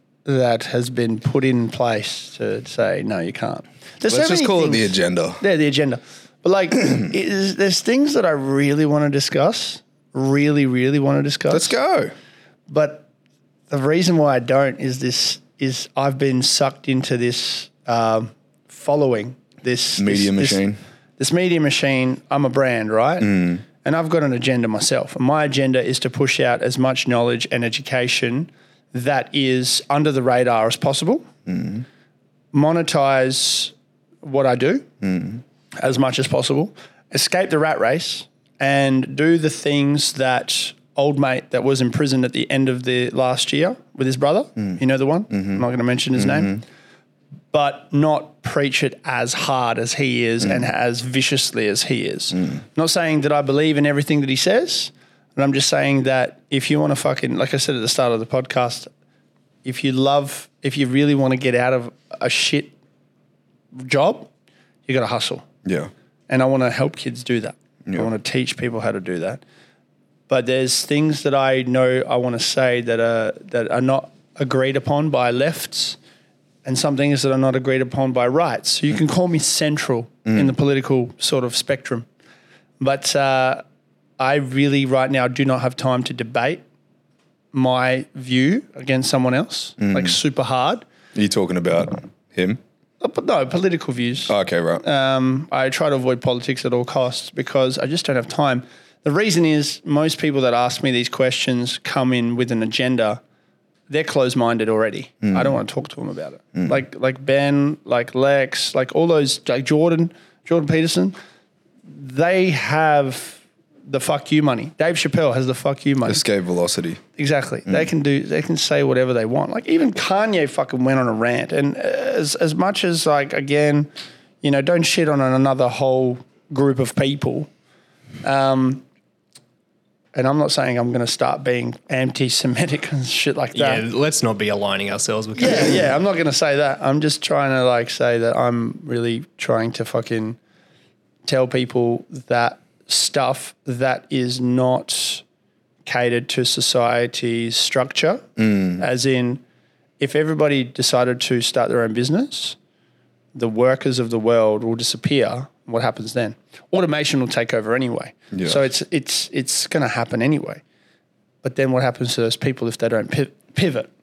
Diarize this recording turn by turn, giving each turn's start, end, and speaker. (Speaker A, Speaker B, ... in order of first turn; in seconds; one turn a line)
Speaker A: 0.2-11.7
Speaker B: 4.1-5.4
Speaker B: 11.5-12.1
Speaker A: 12.7-13.1
Speaker A: 13.7-20.6
Speaker B: 20.0-20.8
Speaker A: 21.2-31.3
Speaker B: 23.2-23.6
Speaker B: 31.4-31.8
Speaker A: 32.5-34.9
Speaker B: 35.0-35.4
Speaker A: 35.8-46.6
Speaker B: 45.3-45.6
Speaker B: 46.1-46.6
Speaker A: 47.5-58.9
Speaker A: 59.6-62.7
Speaker A: 63.7-64.3
Speaker A: 64.9-65.4
Speaker B: 65.6-65.9
Speaker A: 66.3-69.4
Speaker A: 70.3-76.0
Speaker A: 76.6-82.1
Speaker B: 80.2-80.5
Speaker A: 82.8-83.6
Speaker A: 84.2-86.6
Speaker A: 87.5-90.8
Speaker B: 89.8-90.1
Speaker B: 91.1-92.6
Speaker A: 93.0-103.2
Speaker B: 94.3-94.8
Speaker A: 103.9-111.1
Speaker B: 105.2-105.6
Speaker A: 111.9-116.2
Speaker B: 116.0-117.0
Speaker A: 117.2-123.9
Speaker A: 124.4-127.5
Speaker A: 128.2-128.8
Speaker A: 130.1-133.8
Speaker C: 133.5-135.9
Speaker A: 135.3-140.4
Speaker A: 141.2-145.2
Speaker A: 145.8-149.4
Speaker B: 148.4-148.8
Speaker A: 150.0-152.6
Speaker A: 153.3-160.6
Speaker B: 158.3-158.6
Speaker A: 161.4-163.9